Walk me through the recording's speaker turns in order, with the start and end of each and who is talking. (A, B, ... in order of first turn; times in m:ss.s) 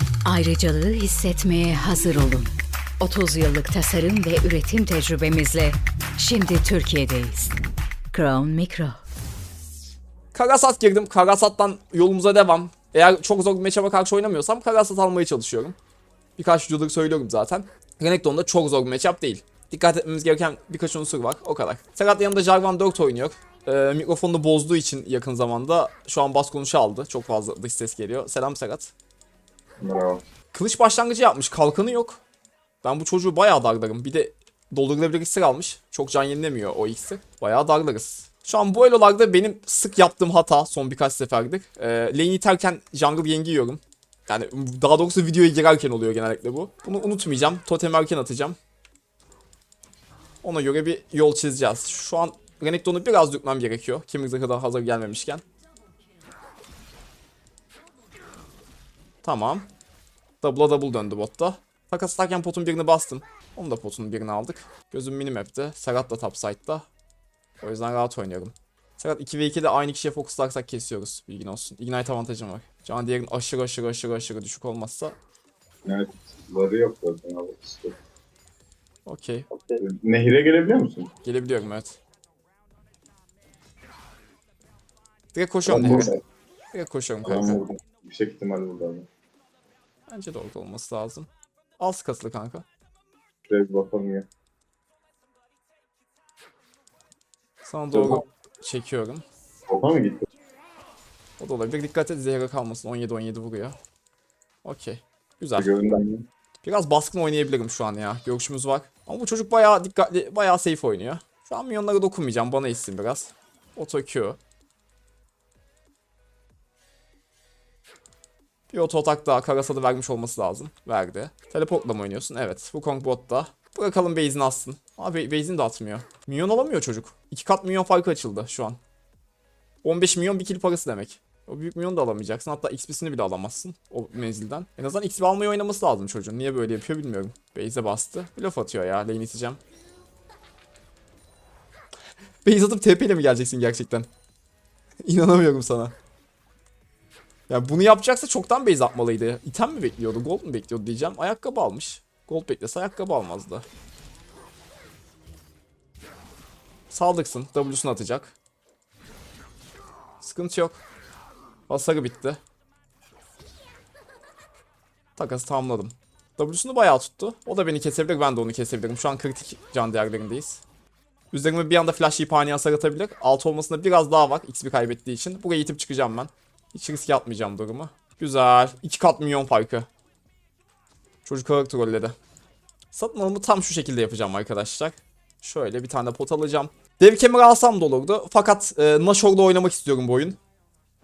0:00.2-0:07.5 A
0:08.1-0:09.0 A
0:10.3-0:15.8 B
0:16.4-0:28.9 B
0:29.8-0:30.2 C
0:30.5-0:32.2 B
0:32.8-0:48.6 B
0:50.4-0:55.4 B
0:59.2-0:59.7 B
1:00.4-1:06.8 B
1:07.6-1:15.2 B
1:15.8-1:18.0 C
1:19.0-1:19.6 B
1:19.8-1:21.1 C
1:21.2-1:22.0 B
1:25.3-1:26.2 B
1:25.6-1:26.2 C
1:26.7-1:27.6 B
1:27.2-1:29.1 C
1:30.1-1:32.6 B
1:33.5-1:34.2 C
1:37.6-1:39.2 B
1:37.9-1:38.2 C
1:39.7-1:40.3 C
1:41.4-1:43.8 B
1:44.6-1:45.7 B
1:45.6-1:46.2 C
1:46.6-1:54.4 B
1:58.7-2:08.8 B
2:09.8-2:19.6 B
2:22.4-2:24.1 B
2:25.0-2:25.9 B
2:27.5-2:33.6 B
2:36.9-2:38.3 B
2:40.2-2:40.8 B
2:41.7-2:42.4 B
2:45.2-2:50.6 B
2:51.3-2:59.9 B
3:01.2-3:02.2 B
3:02.9-3:10.4 B